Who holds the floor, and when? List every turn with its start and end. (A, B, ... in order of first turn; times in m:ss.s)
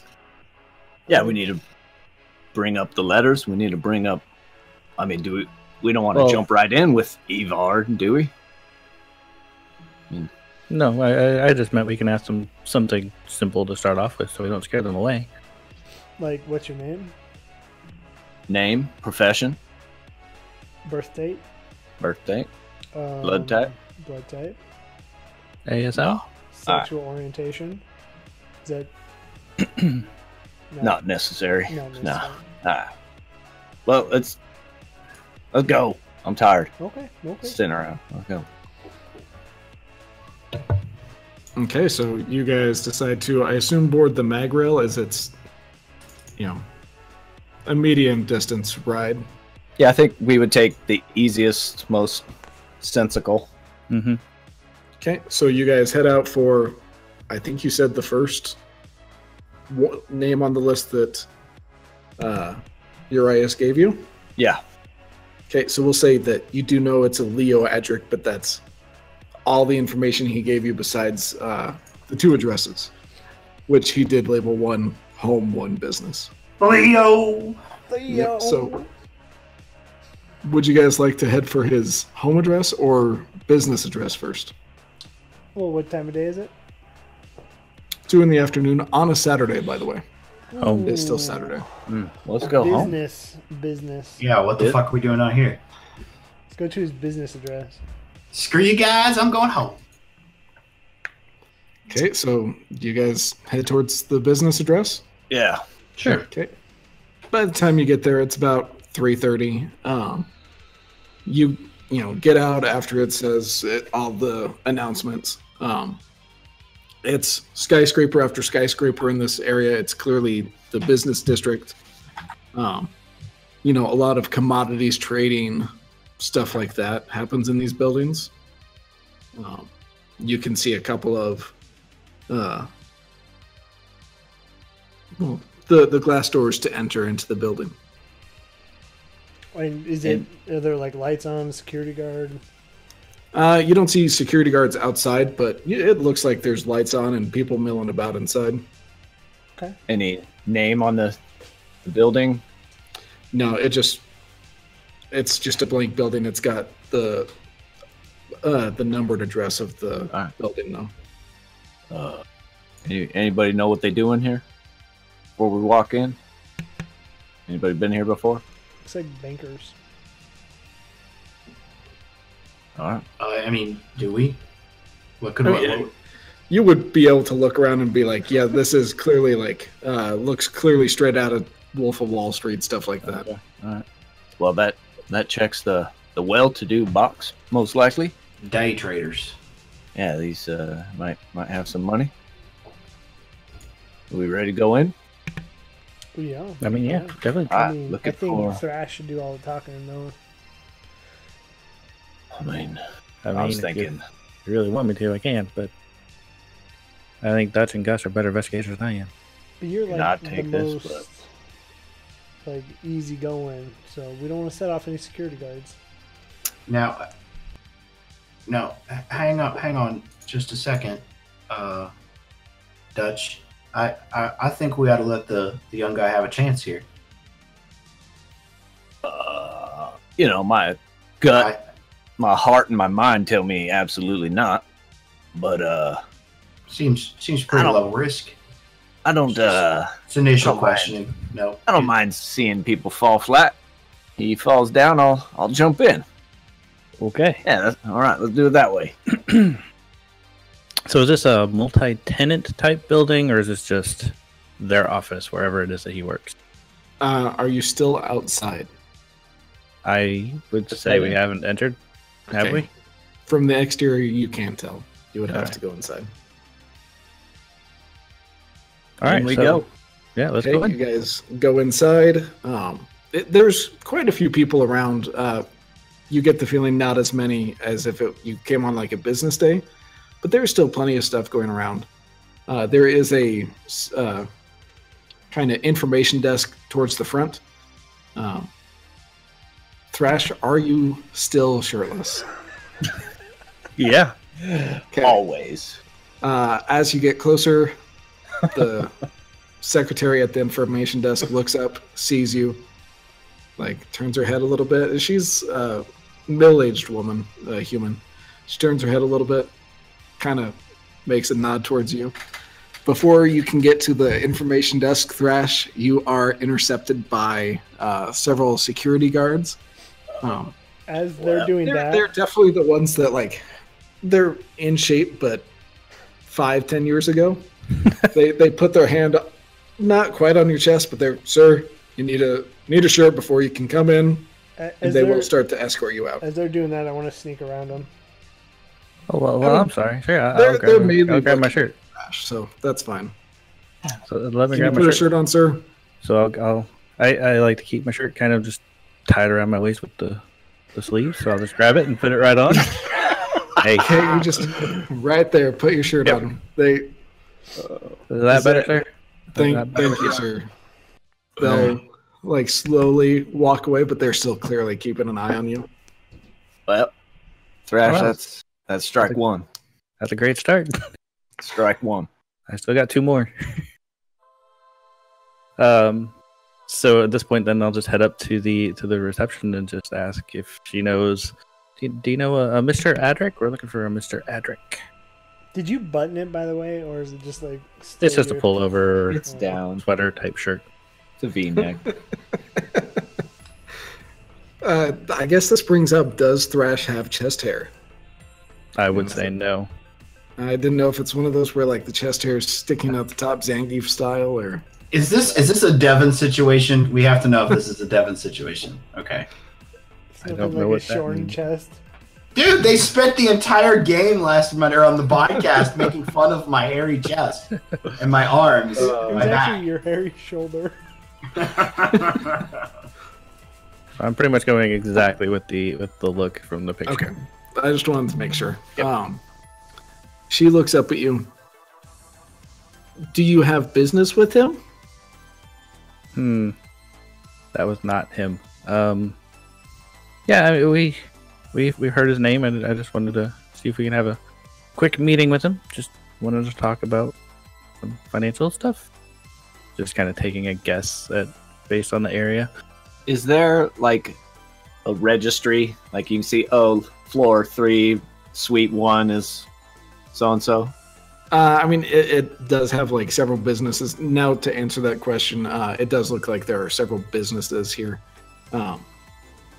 0:01.1-0:01.4 A
0:01.1-0:01.6 B
0:02.5-0:04.2 B
0:05.0-0:08.3 B
0:10.7-0:15.3 C
0:16.2-0:17.1 A
0:18.5-0:19.6 B
0:20.9-0:21.4 A
0:22.0-0:22.5 B
0:22.9-0:24.6 A
0:23.2-0:23.7 B
0:25.7-0:26.2 C
0:26.0-0:26.9 B
0:26.5-0:27.8 A
0:28.6-0:28.9 A
0:29.7-0:30.0 C
0:30.7-0:31.0 A
0:30.8-0:32.9 B
0:31.7-0:32.4 A
0:33.9-0:34.4 B
0:35.5-0:36.7 B
0:36.8-0:37.6 A
0:37.4-0:38.5 B
0:41.6-0:45.3 D
0:46.4-0:46.6 D
0:47.7-0:49.2 D
0:49.8-0:52.3 B
0:52.8-0:53.5 B
0:53.9-0:54.2 C
0:55.0-0:58.6 D
0:59.7-1:01.3 D
1:02.2-1:04.1 D
1:05.5-1:08.6 D
1:09.5-1:12.9 D
1:13.7-1:16.3 D
1:16.6-1:17.6 E
1:17.9-1:18.9 A
1:18.1-1:18.7 D
1:20.4-1:24.5 D
1:25.6-1:26.5 A
1:28.1-1:30.0 D
1:30.5-1:31.6 A
1:30.6-1:30.9 C
1:30.8-1:31.7 D
1:31.9-1:32.1 C
1:32.3-1:33.0 B
1:32.5-1:34.2 A
1:34.2-1:35.6 E
1:36.5-1:37.8 A
1:38.3-1:39.8 E
1:41.9-1:45.0 D
1:45.3-1:45.6 B
1:46.0-1:46.2 E
1:46.3-1:46.5 D
1:47.3-1:50.3 D
1:51.2-1:56.0 D
1:57.0-2:01.8 D
2:02.5-2:02.9 D
2:03.6-2:08.3 D
2:09.4-2:11.5 D
2:12.3-2:12.7 D
2:15.2-2:17.8 D
2:19.5-2:22.4 A
2:23.3-2:28.6 D
2:29.9-2:31.2 B
2:31.8-2:32.4 B
2:33.3-2:34.0 D
2:35.1-2:37.3 D
2:38.4-2:40.9 D
2:41.9-2:42.2 B
2:42.9-2:44.4 B
2:45.4-2:46.2 B
2:47.5-2:48.4 B
2:48.8-2:49.8 A
2:52.8-2:53.0 B
2:53.2-2:54.4 E
2:55.2-2:55.9 E
2:55.4-2:55.8 D
2:56.5-3:03.3 D
3:03.4-3:03.8 B
3:04.4-3:08.1 B
3:08.4-3:09.4 E
3:10.0-3:12.1 B
3:14.1-3:14.9 B
3:16.2-3:20.2 A
3:16.6-3:17.7 C
3:17.5-3:18.6 B
3:22.4-3:22.8 B
3:23.2-3:23.9 C
3:23.3-3:24.0 B
3:24.5-3:25.7 C
3:27.2-3:29.1 C
3:29.6-3:31.2 A
3:29.9-3:31.0 B
3:32.4-3:35.8 A
3:36.7-3:37.1 E
3:38.5-3:41.9 E
3:43.0-3:46.9 E
3:49.0-3:51.5 B
3:51.3-3:51.6 E
3:52.2-3:54.6 B
3:55.4-3:56.0 B
3:56.7-3:58.4 E
3:57.5-3:57.8 B
3:59.0-4:01.0 B
3:59.4-4:01.9 E
4:01.7-4:03.6 B
4:04.2-4:06.0 B
4:07.0-4:07.4 C
4:07.4-4:09.0 B
4:09.1-4:09.6 C
4:10.9-4:16.4 C
4:17.0-4:18.7 D
4:19.8-4:21.8 C
4:20.8-4:21.2 B
4:22.3-4:22.7 C
4:23.3-4:26.1 D
4:29.0-4:29.6 C
4:29.1-4:29.6 B
4:30.2-4:30.8 C
4:30.4-4:35.5 D
4:36.1-4:39.6 D
4:40.2-4:41.9 D
4:42.5-4:44.3 D
4:45.3-4:47.4 D
4:48.2-4:48.5 D
4:49.9-4:52.3 D
4:53.8-4:55.8 B
4:54.9-4:55.2 D
4:56.2-4:57.8 D
4:58.5-4:58.9 D
4:59.6-5:02.6 D
5:03.6-5:09.5 D
5:10.2-5:12.2 D
5:12.9-5:19.6 D
5:20.2-5:20.5 D
5:20.9-5:22.1 A
5:21.6-5:23.4 D
5:24.0-5:25.5 D
5:26.2-5:27.5 D
5:28.0-5:34.3 D
5:34.6-5:35.3 A
5:34.8-5:36.2 D
5:36.2-5:37.9 A
5:39.1-5:41.8 C
5:39.4-5:39.7 D
5:40.3-5:43.1 D
5:44.1-5:45.1 C
5:44.5-5:45.7 D
5:46.0-5:50.2 C
5:50.7-5:53.0 C
5:53.6-5:53.9 C
5:53.8-5:56.9 D
5:58.1-6:00.1 C
5:58.3-5:58.8 D
5:59.4-6:00.5 D
6:01.4-6:05.7 D
6:01.4-6:01.8 C
6:06.7-6:06.9 B
6:07.7-6:09.4 B
6:07.8-6:08.1 C
6:10.0-6:10.8 C
6:11.4-6:12.1 B
6:12.5-6:13.6 C
6:15.6-6:16.1 C
6:16.7-6:24.8 C
6:25.5-6:28.5 A
6:28.0-6:30.6 C
6:29.1-6:29.8 B
6:29.3-6:29.6 A
6:31.2-6:31.9 B
6:34.6-6:37.7 D
6:38.8-6:39.7 C
6:38.9-6:39.3 D
6:40.4-6:44.6 D
6:44.9-6:49.3 E
6:50.2-6:51.8 A
6:50.2-6:51.4 C
6:52.4-6:59.6 E
6:59.0-7:00.8 A
7:01.4-7:02.5 E
7:04.0-7:07.1 C
7:06.9-7:09.2 D
7:10.3-7:11.3 D
7:13.1-7:14.6 D
7:16.2-7:16.6 C
7:17.5-7:19.2 C
7:20.3-7:21.0 C
7:21.5-7:24.2 C
7:24.8-7:27.2 C
7:27.8-7:28.9 C
7:29.8-7:32.5 C
7:33.1-7:34.2 B
7:34.8-7:39.5 B
7:40.1-7:40.7 B
7:41.3-7:48.9 D